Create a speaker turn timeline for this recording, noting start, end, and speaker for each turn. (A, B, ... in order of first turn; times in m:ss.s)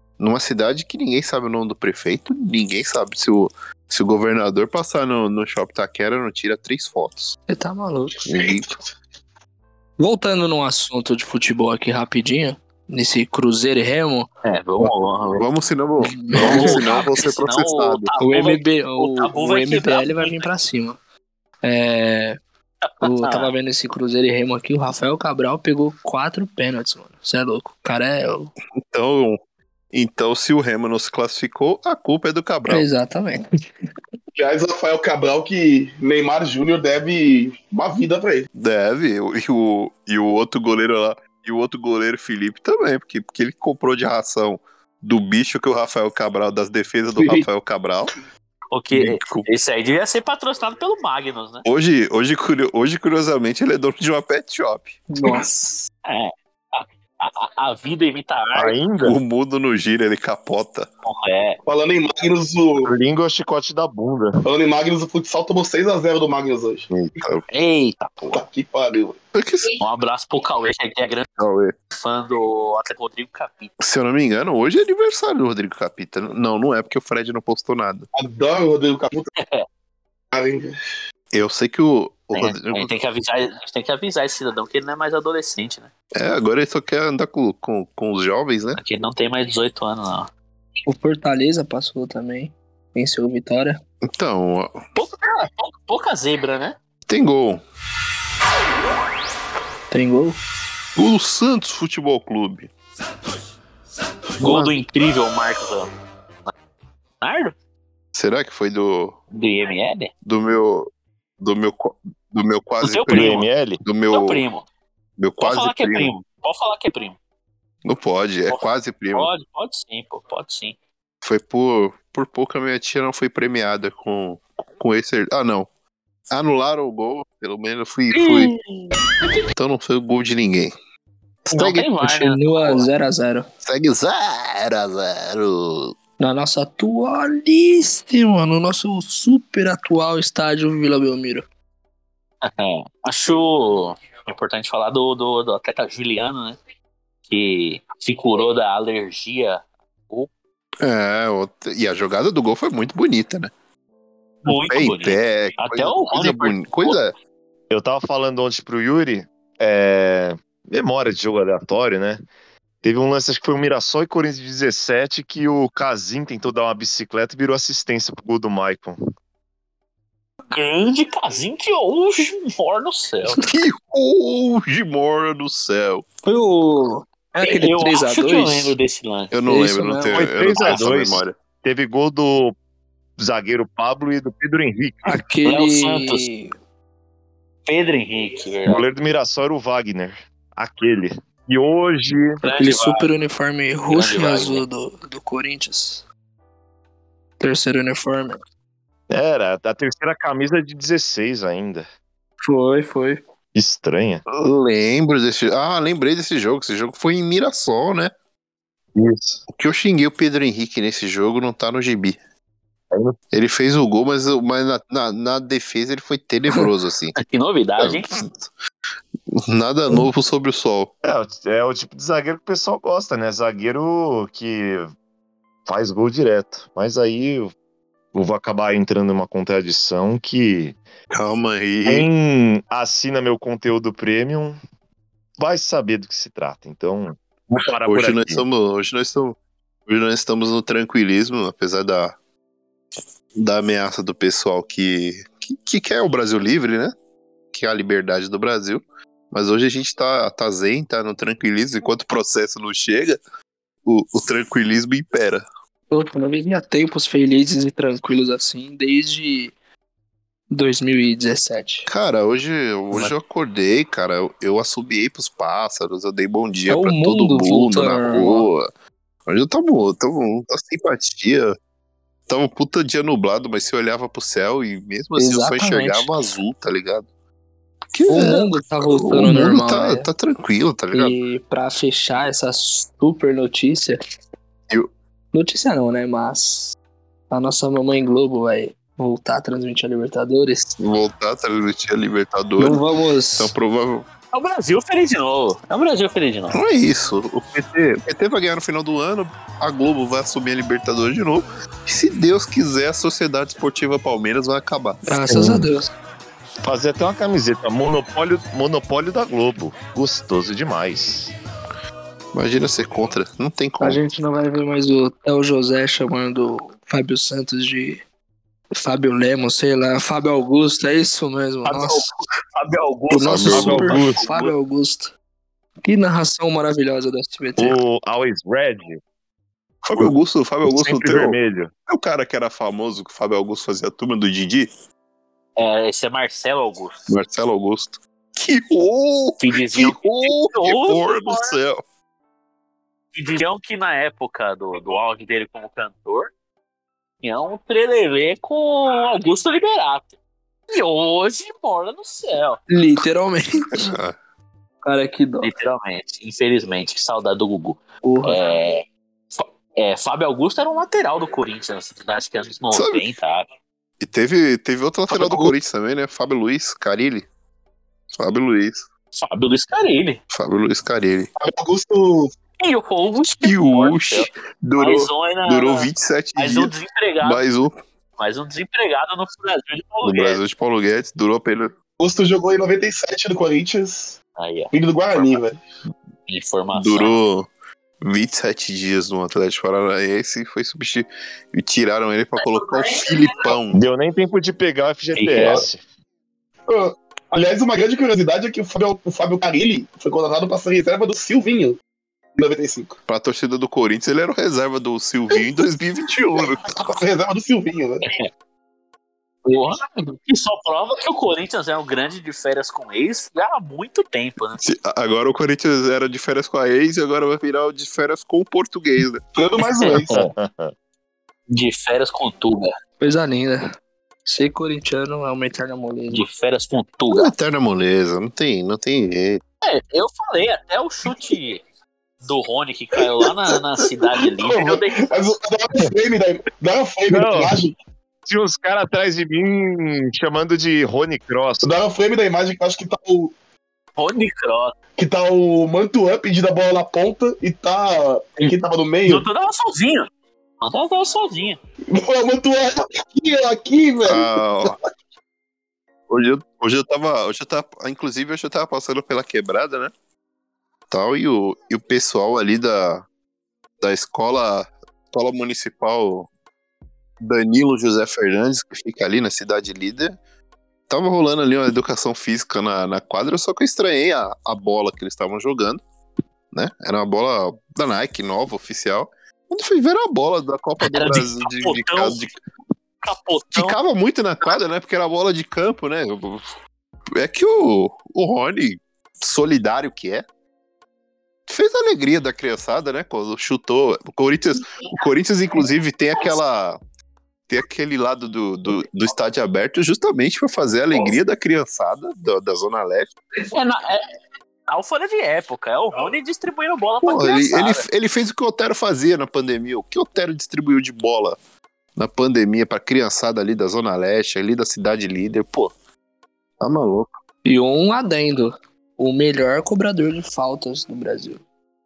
0:00.2-0:07.4 A
0:07.5-0:08.2 B
0:08.2-0:08.7 A
0:08.3-0:08.9 C
0:10.0-0:14.3 B
0:14.4-0:15.4 D
0:14.8-0:18.1 A
0:16.0-0:16.8 B
0:16.3-0:20.5 D
0:18.2-0:21.0 B
0:21.6-0:22.4 B
0:22.9-0:23.5 D
0:23.0-0:28.5 B
0:28.8-0:29.4 A
0:29.9-0:32.8 A
0:32.7-0:33.4 B
0:34.4-0:38.5 C
0:38.5-0:48.1 A
0:47.2-0:47.4 C
0:48.7-0:51.6 D
0:48.9-0:49.5 A
0:51.6-0:55.1 A
0:55.1-0:55.5 B
0:56.0-0:58.7 D
0:58.6-0:59.2 E
0:58.6-1:00.9 A
1:01.0-1:01.6 D
1:01.6-1:02.9 C
1:02.8-1:04.4 E
1:04.4-1:06.9 C
1:06.9-1:07.4 A
1:07.5-1:08.4 D
1:08.3-1:09.2 C
1:09.3-1:09.7 A
1:09.8-1:11.3 D
1:11.4-1:11.7 A
1:11.9-1:13.7 D
1:13.8-1:18.1 A
1:18.1-1:19.3 C
1:19.4-1:19.6 D
1:20.3-1:20.7 C
1:21.3-1:22.9 A
1:22.3-1:25.9 D
1:26.1-1:28.8 A
1:28.8-1:30.3 D
1:30.9-1:33.8 B
1:34.0-1:34.8 A
1:34.9-1:36.8 D
1:37.1-1:37.6 A
1:39.9-1:40.4 B
1:41.0-1:42.7 A
1:44.4-1:44.7 A
1:44.4-1:45.9 D
1:47.2-1:47.5 D
1:48.1-1:49.2 A
1:49.3-1:50.1 D
1:50.2-1:50.9 A
1:51.4-1:54.4 A
1:52.8-1:53.4 D
1:53.1-1:53.8 E
1:54.1-1:54.6 D
1:55.2-1:56.1 A
1:55.4-1:57.2 D
1:57.8-1:59.3 A
1:58.5-2:00.8 D
2:01.2-2:05.7 A
2:06.3-2:08.5 A
2:08.1-2:09.0 D
2:09.5-2:10.7 A
2:11.4-2:12.0 A
2:11.5-2:12.8 D
2:12.0-2:13.5 B
2:13.6-2:15.9 A
2:16.2-2:21.4 B
2:22.4-2:26.6 D
2:27.3-2:30.3 D
2:30.8-2:33.5 A
2:34.4-2:37.0 D
2:34.4-2:37.1 A
2:37.7-2:42.2 E
2:42.8-2:49.0 E
2:50.5-2:53.4 D
2:53.4-2:56.0 A
2:56.2-2:58.7 B
2:57.4-2:59.3 D
2:59.3-3:01.4 A
2:59.5-3:00.2 B
3:00.1-3:02.5 E
3:03.2-3:05.2 E
3:05.0-3:06.5 B
3:05.4-3:06.2 D
3:07.6-3:08.8 D
3:08.6-3:12.4 E
3:12.4-3:13.0 D
3:12.5-3:16.0 B
3:13.9-3:14.6 D
3:17.4-3:18.4 B
3:19.1-3:21.8 E
3:22.4-3:23.2 B
3:23.5-3:24.2 E
3:24.3-3:28.1 A
3:29.0-3:29.4 E
3:29.5-3:32.2 A
3:32.9-3:33.2 E
3:33.3-3:37.2 A
3:37.2-3:38.1 D
3:37.8-3:38.5 A
3:39.3-3:40.9 A
3:41.0-3:44.9 E
3:45.7-3:47.5 E
3:48.1-3:50.8 E
3:51.1-3:52.1 A
3:51.8-3:54.6 E
3:55.4-3:58.4 E
3:57.8-4:02.2 A
4:03.3-4:06.9 A
4:07.5-4:13.2 A
4:13.8-4:15.4 A
4:15.9-4:19.5 B
4:20.5-4:21.9 B
4:21.9-4:28.7 A
4:26.7-4:28.5 B
4:29.3-4:31.5 A
4:32.3-4:37.1 A
4:35.2-4:36.1 B
4:37.9-4:41.2 A
4:38.1-4:40.1 B
4:40.9-4:44.0 B
4:45.3-4:46.8 B
4:47.3-4:50.8 B
4:50.8-4:52.8 A
4:52.6-4:53.5 B
4:53.4-4:54.1 A
4:54.3-4:56.6 D
4:56.5-5:05.0 A
5:05.1-5:05.9 B
5:05.3-5:05.7 E
5:06.6-5:11.3 E
5:12.3-5:14.0 A
5:13.8-5:18.0 B
5:18.8-5:22.1 B
5:21.6-5:24.4 E
5:23.1-5:25.1 B
5:23.3-5:24.2 D
5:23.3-5:24.1 A
5:25.8-5:27.8 B
5:27.6-5:29.0 E
5:29.8-5:34.7 A
5:30.6-5:31.7 E
5:35.6-5:37.0 D
5:37.1-5:41.8 A
5:39.4-5:41.6 D
5:43.1-5:46.3 D
5:47.2-5:50.1 D
5:50.7-5:52.6 D
5:52.7-5:53.9 B
5:53.8-5:54.2 A
5:54.8-5:55.5 B
5:55.4-6:03.5 D
5:58.0-5:58.4 B
6:02.7-6:03.0 A
6:04.0-6:07.3 A
6:08.2-6:08.9 A
6:09.1-6:10.2 D
6:10.3-6:11.3 A
6:11.4-6:12.3 C
6:12.6-6:17.4 D
6:13.4-6:17.8 A
6:18.2-6:20.4 D
6:20.0-6:21.7 A
6:22.0-6:24.2 C
6:24.4-6:24.7 D
6:24.7-6:25.6 C
6:26.3-6:27.2 D
6:26.7-6:27.5 A
6:28.0-6:33.8 A
6:33.7-6:35.8 E
6:35.1-6:35.6 D
6:36.7-6:41.8 C
6:42.4-6:43.0 C
6:43.0-6:47.0 A
6:46.4-6:48.0 C
6:49.4-6:54.6 D
6:54.6-6:59.2 A
6:59.3-7:00.2 C
7:00.0-7:00.7 E
7:01.5-7:02.7 D
7:03.0-7:03.6 B
7:04.2-7:06.2 B
7:06.1-7:07.3 D
7:07.1-7:09.4 A
7:09.6-7:11.6 D
7:12.2-7:15.1 D
7:14.2-7:17.8 C
7:17.1-7:17.6 E
7:18.3-7:21.6 E
7:21.6-7:23.3 C
7:24.0-7:24.7 D
7:25.0-7:29.2 C
7:29.0-7:30.1 D
7:30.6-7:31.6 D
7:31.9-7:34.8 C
7:34.0-7:34.8 A
7:36.1-7:39.9 A
7:40.9-7:43.0 A
7:43.8-7:46.3 A
7:47.2-7:50.2 A
7:50.9-7:55.8 A
7:56.5-8:02.3 A
8:00.8-8:02.3 D
8:03.0-8:03.7 D
8:03.5-8:06.5 A
8:07.1-8:10.2 A
8:11.5-8:16.8 A
8:17.5-8:23.1 A
8:23.5-8:24.0 D
8:24.7-8:27.8 D
8:27.0-8:31.4 A
8:32.0-8:35.6 A
8:36.6-8:37.1 A
8:37.4-8:41.4 B